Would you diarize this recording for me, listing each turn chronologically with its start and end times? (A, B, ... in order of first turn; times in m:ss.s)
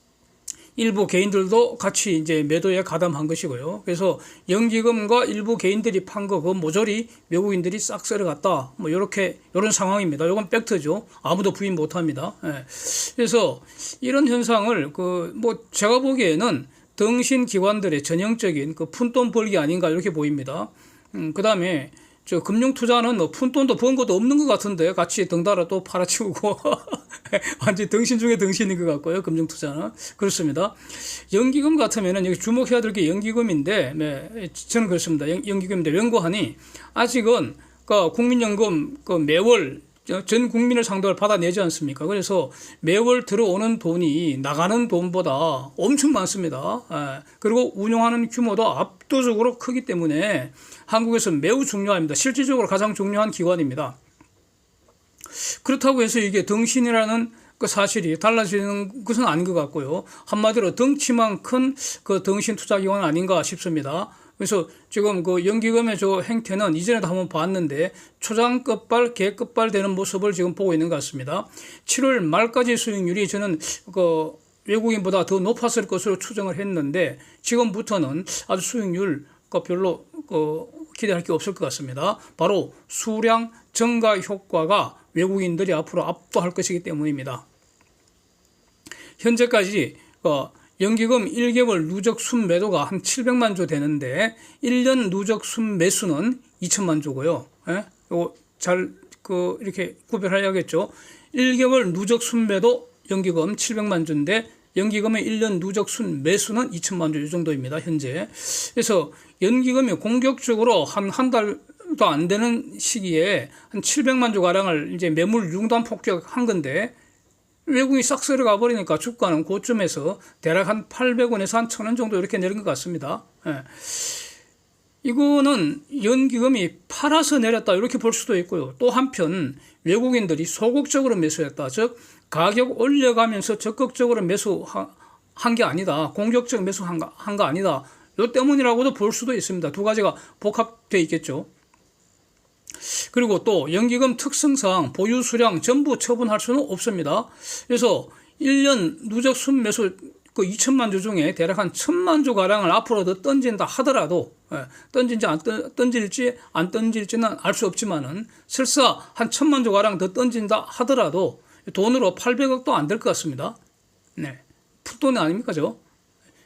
0:00.8-0:54.0 A
0:55.6-1:27.4 A
1:29.2-1:56.9 A
1:57.7-2:04.2 A
2:05.0-2:21.5 A
2:22.9-2:43.6 A
2:44.2-2:45.8 A